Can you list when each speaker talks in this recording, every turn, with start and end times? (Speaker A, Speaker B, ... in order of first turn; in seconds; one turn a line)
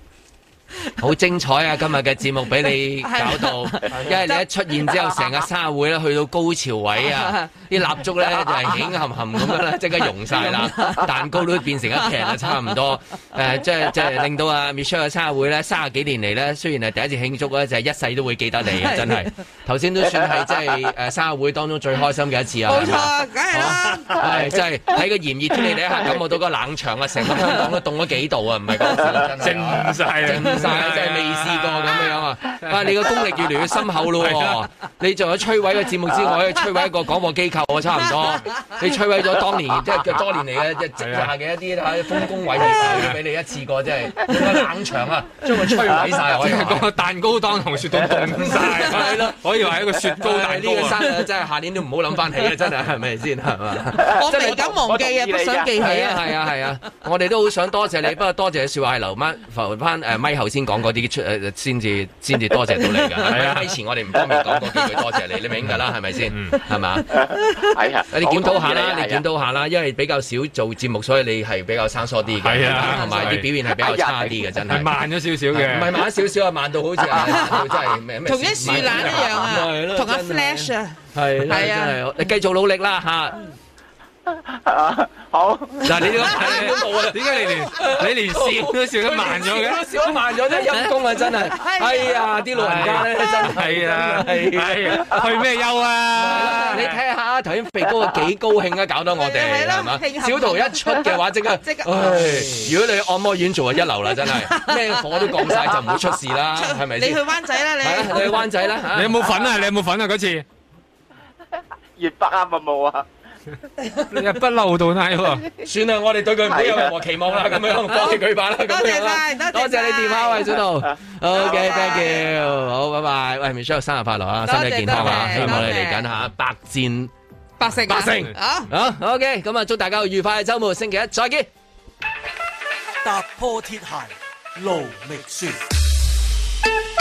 Speaker A: 1.0-46.9
Speaker B: 2.9-4.4
Speaker B: 7.0-8.9
Speaker B: 10.0-11.1
Speaker B: 11.9-12.8
Speaker B: 18.7-19.3
Speaker B: 22.6-24.3
Speaker C: 23.9-24.2
Speaker D: 29.0-29.4
Speaker C: 29.4-33.2
Speaker C: 34.0-34.6
Speaker C: 41.0-41.3
Speaker C: 42.8-43.2
Speaker B: 44.3-44.6
Speaker B: 45.4-45.9
Speaker C: 46.3-51.0
Speaker A: 48.1-54.8
Speaker B: 50.9-51.3
Speaker D: 53.9-55.8
Speaker B: 54.0-56.4
Speaker A: 55.8-67.1
Speaker B: 62.6-63.6
Speaker C: 63.2-63.7
Speaker D: 64.3-64.6
Speaker D: 67.1-69.2
Speaker B: 67.3-67.7
Speaker A: 68.1-83.4
Speaker C: 72.4-73.5
Speaker D: 73.6-74.6
Speaker C: 74.7-76.0
Speaker B: 77.0-82.0
Speaker C: 78.6-79.3
Speaker D: 84.6-86.0
Speaker A: 85.8-95.3
Speaker C: 86.1-89.8
Speaker B: 90.4-92.4
Speaker C: 92.5-97.0
Speaker A: 96.1-109.5
Speaker B: 96.3-96.8
Speaker B: 99.1-102.7
Speaker B: 104.1-105.8
Speaker B: 106.5-108.7
Speaker C: 108.9-110.4
Speaker D: 112.0-113.0
Speaker C: 114.1-115.4
Speaker A: 115.6-127.1
Speaker D: 116.4-117.0
Speaker B: 117.8-120.6
Speaker B: 121.3-122.3
Speaker D: 121.4-122.3
Speaker B: 124.4-126.1
Speaker C: 124.9-125.7
Speaker B: 127.6-128.7
Speaker A: 127.9-131.5
Speaker E: 133.0-135.6